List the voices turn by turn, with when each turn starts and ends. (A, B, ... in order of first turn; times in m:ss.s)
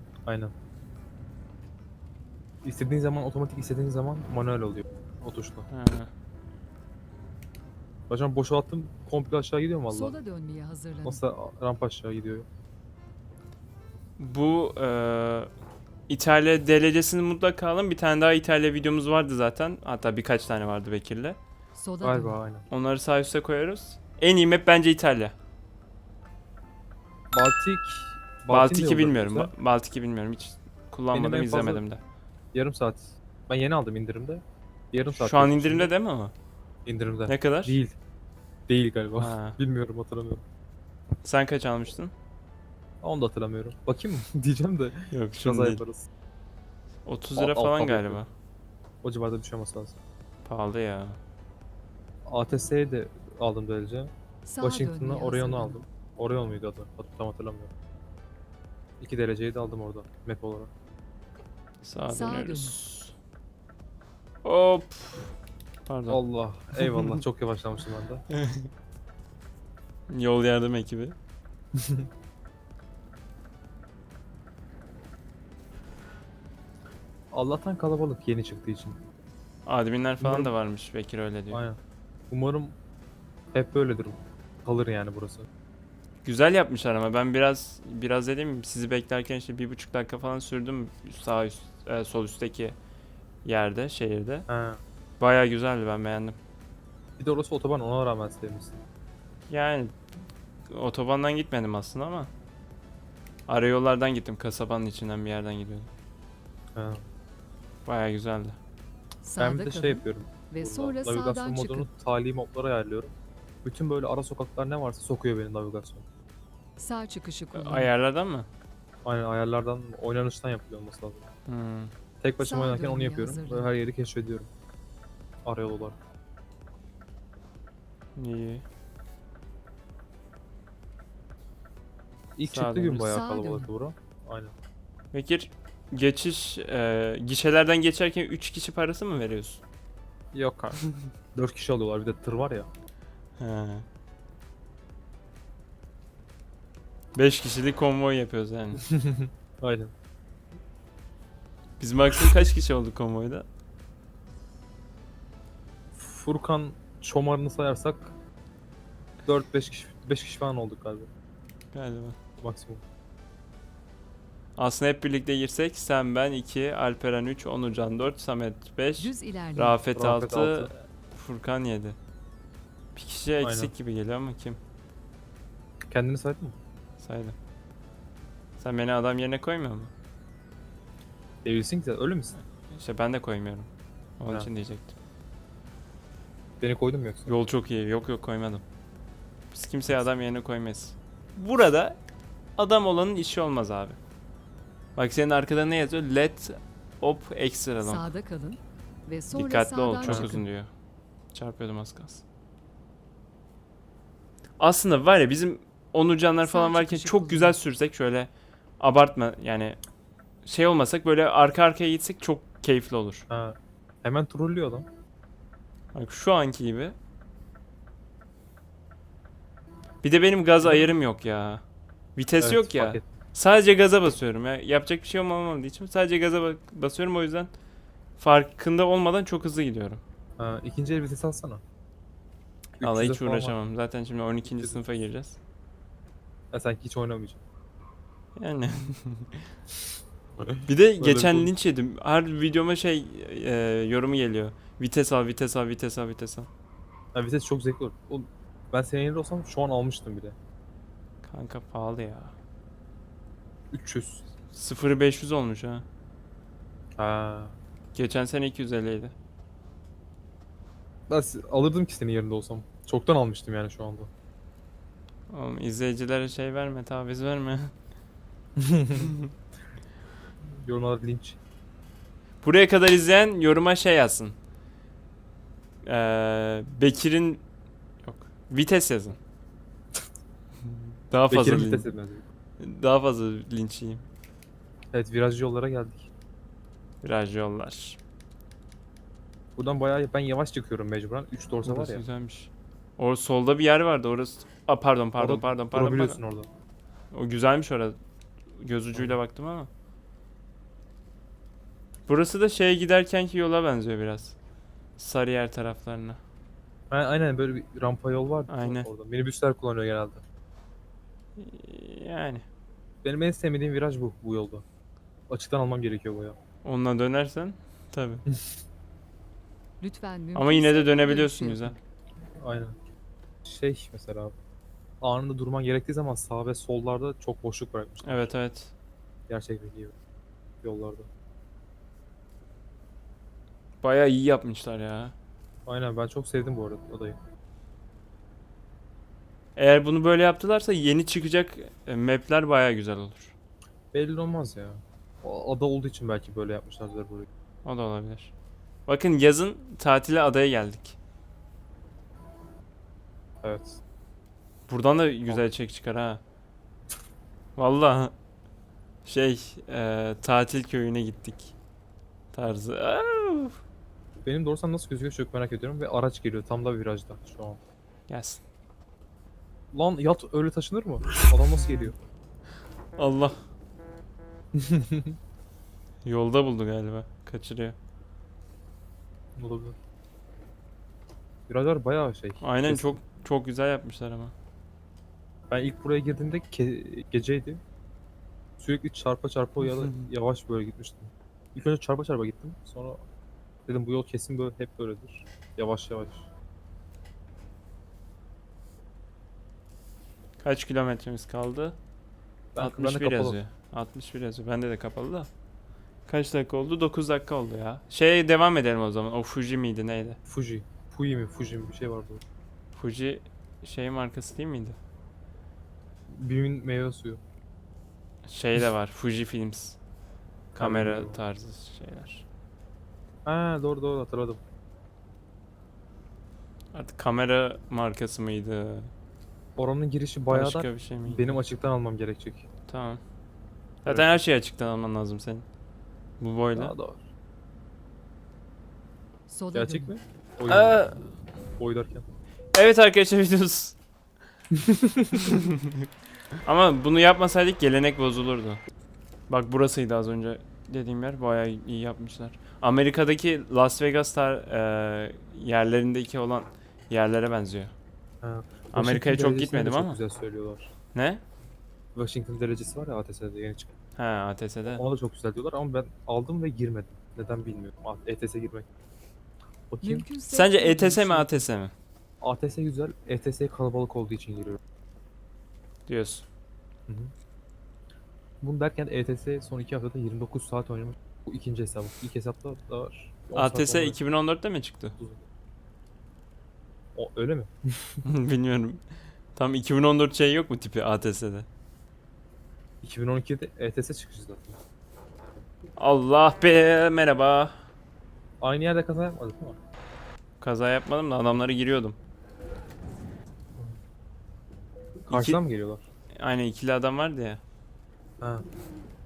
0:00.2-0:00.5 A
0:02.6-0:05.7 A
0:05.7-0:06.1 B
0:08.1-0:10.1 A
0:09.9-0:11.2 C
0:11.0-0:12.5 A
0:14.2-0:15.5 B
0:16.1-0:21.4 B
0:21.8-0:22.4 C
0:22.0-0:22.6 A
0:22.7-0:25.3 B
0:27.3-0:29.5 A
0:28.5-0:32.0 B
0:31.1-0:31.8 A
0:32.5-0:35.9 A
0:35.1-0:36.3 B
0:36.8-0:38.0 A
0:37.2-0:37.8 B
0:38.7-0:40.4 A
0:39.2-0:39.6 B
0:41.2-0:42.1 B
0:43.0-0:46.0 A
0:45.1-0:45.8 B
0:47.0-0:48.3 B
0:47.4-0:48.2 A
0:49.0-0:50.0 A
0:50.4-0:51.2 B
0:52.2-0:57.7 A
0:54.4-0:55.8 C
0:59.0-1:00.7 A
1:01.8-1:03.1 B
1:02.1-1:02.8 C
1:04.4-1:05.3 B
1:05.8-1:06.2 B
1:06.1-1:08.2 A
1:06.8-1:07.2 B
1:08.3-1:08.7 B
1:10.1-1:11.1 B
1:11.7-1:12.1 A
1:17.3-1:19.0 A
1:19.6-1:21.6 B
1:20.2-1:20.5 A
1:21.5-1:21.8 A
1:22.3-1:22.8 A
1:23.5-1:25.5 A
1:26.2-1:32.8 B
1:33.4-1:34.5 B
1:34.5-1:34.8 A
1:35.2-1:36.4 B
1:37.2-1:38.8 A
1:39.5-1:39.9 B
1:40.7-1:42.3 B
1:43.5-1:45.9 B
1:46.7-1:47.0 A
1:47.8-1:48.6 B
1:49.2-1:51.9 C
1:49.4-1:56.0 A
1:56.8-1:57.9 C
1:57.5-1:58.5 B
1:59.0-2:01.3 A
2:01.5-2:01.9 B
2:02.2-2:04.5 A
2:02.4-2:03.7 C
2:05.4-2:06.0 A
2:08.2-2:08.6 B
2:12.4-2:14.5 A
2:12.5-2:13.1 B
2:13.0-2:13.7 C
2:15.1-2:19.6 B
2:20.3-2:20.8 A
2:21.3-2:22.7 A
2:23.4-2:23.8 B
2:27.1-2:28.8 B
2:28.8-2:29.9 A
2:31.8-2:33.4 B
2:35.9-2:38.1 A
2:39.2-2:41.1 A
2:41.7-2:42.2 B
2:42.4-2:42.8 A
2:44.6-2:52.0 B
2:49.0-2:49.8 C
2:49.9-2:50.7 A
2:52.9-2:54.6 B
2:53.4-2:53.7 A
2:55.9-2:56.6 A
2:57.0-2:57.4 B
2:58.6-2:59.9 B
3:01.4-3:02.3 A
3:02.7-3:04.9 B
3:06.6-3:07.3 A
3:07.3-3:08.6 B
3:09.5-3:12.0 B
3:12.6-3:14.0 B
3:15.0-3:18.0 B
3:17.8-3:20.4 C
3:19.3-3:20.7 B
3:20.0-3:20.4 A
3:21.3-3:22.2 B
3:24.6-3:29.8 B
3:26.4-3:27.6 C
3:30.4-3:33.3 B
3:33.3-3:34.9 A
3:35.9-3:36.9 B
3:40.0-3:41.6 B
3:40.6-3:40.9 A
3:42.2-3:47.5 B
3:42.4-3:43.1 A
3:48.2-3:50.0 B
3:50.4-3:51.6 A
3:52.8-3:55.4 B
3:52.8-3:53.6 A
3:54.4-3:54.8 A
3:56.5-3:57.4 A
3:58.4-3:59.4 B
4:00.6-4:06.5 B
4:01.0-4:01.5 A
4:07.1-4:10.4 A
4:11.2-4:12.3 B
4:13.7-4:14.3 A
4:14.5-4:15.8 B
4:17.0-4:17.6 A
4:17.9-4:19.1 B
4:21.1-4:24.1 A
4:25.3-4:27.7 B
4:28.6-4:29.1 A
4:29.0-4:29.3 B
4:30.6-4:31.4 A
4:32.4-4:34.4 B
4:35.8-4:37.4 B
4:38.0-4:39.2 B
4:41.1-4:41.8 B
4:41.3-4:42.2 A
4:42.6-4:44.0 B
4:44.9-4:46.1 A
4:47.0-4:48.0 B
4:49.6-4:52.0 A
4:51.6-4:56.2 B
4:55.2-4:56.5 A
4:57.1-4:58.0 B
4:58.6-4:59.7 B
5:02.1-5:04.4 B
5:05.0-5:06.2 B
5:06.9-5:10.2 A
5:08.5-5:08.9 B
5:11.4-5:12.4 B
5:13.0-5:14.6 A
5:15.3-5:16.4 A
5:16.6-5:18.2 B
5:19.8-5:21.8 C
5:20.3-5:21.8 B
5:22.4-5:22.8 A
5:23.4-5:24.3 A
5:25.0-5:28.3 A
5:28.0-5:28.7 B
5:29.3-5:29.9 A
5:30.6-5:31.1 A
5:33.8-5:35.1 B
5:35.6-5:37.2 A
5:39.6-5:43.3 B
5:43.9-5:47.3 A
5:47.6-5:48.3 B
5:48.8-5:51.0 B
5:53.4-5:53.8 A
5:54.7-5:56.2 B
5:57.6-5:58.1 B
5:59.0-6:01.5 B
6:02.3-6:03.6 B
6:04.2-6:07.6 A
6:08.1-6:08.4 B
6:09.7-6:12.0 A
6:13.0-6:13.4 B
6:14.5-6:15.1 A
6:16.0-6:17.8 B
6:19.4-6:19.8 A
6:21.5-6:23.0 A
6:22.4-6:24.3 B
6:25.5-6:27.6 A
6:28.6-6:33.0 A
6:29.8-6:30.0 B
6:33.7-6:36.3 A
6:40.4-6:41.8 B
6:42.5-6:43.4 A
6:42.6-6:45.3 B
6:46.0-6:50.2 B
6:50.3-6:52.2 A
6:52.7-6:54.8 B
6:56.1-6:57.2 A
6:58.2-6:59.8 B
7:00.5-7:02.2 B
7:00.6-7:01.2 A
7:03.2-7:04.4 A
7:06.7-7:08.9 B
7:09.6-7:12.4 A
7:10.3-7:11.4 B
7:12.7-7:13.0 B
7:13.8-7:15.4 B
7:13.8-7:14.2 A
7:16.2-7:16.7 B
7:16.5-7:17.0 A
7:19.3-7:19.9 C
7:19.5-7:20.8 A
7:20.5-7:21.0 B
7:21.6-7:22.0 A
7:22.5-7:23.8 B
7:24.5-7:25.3 A
7:25.1-7:25.8 B
7:26.4-7:28.6 B
7:29.3-7:37.7 B
7:38.2-7:40.7 A
7:38.7-7:40.0 B
7:40.9-7:41.2 B
7:41.9-7:43.7 A
7:44.0-7:44.8 B
7:44.7-7:48.7 A
7:49.7-7:50.1 A
7:49.8-7:51.4 C
7:50.3-7:51.7 B
7:52.2-7:54.6 A
7:55.9-7:56.2 B
7:58.4-8:04.0 A
8:03.3-8:05.0 B
8:06.9-8:08.0 A
8:08.0-8:08.8 B
8:09.3-8:11.5 B
8:12.8-8:14.6 A
8:15.8-8:17.6 B
8:18.4-8:19.6 A
8:20.4-8:22.0 B
8:25.1-8:25.4 B
8:25.1-8:25.8 A
8:26.2-8:27.4 B
8:28.2-8:28.5 A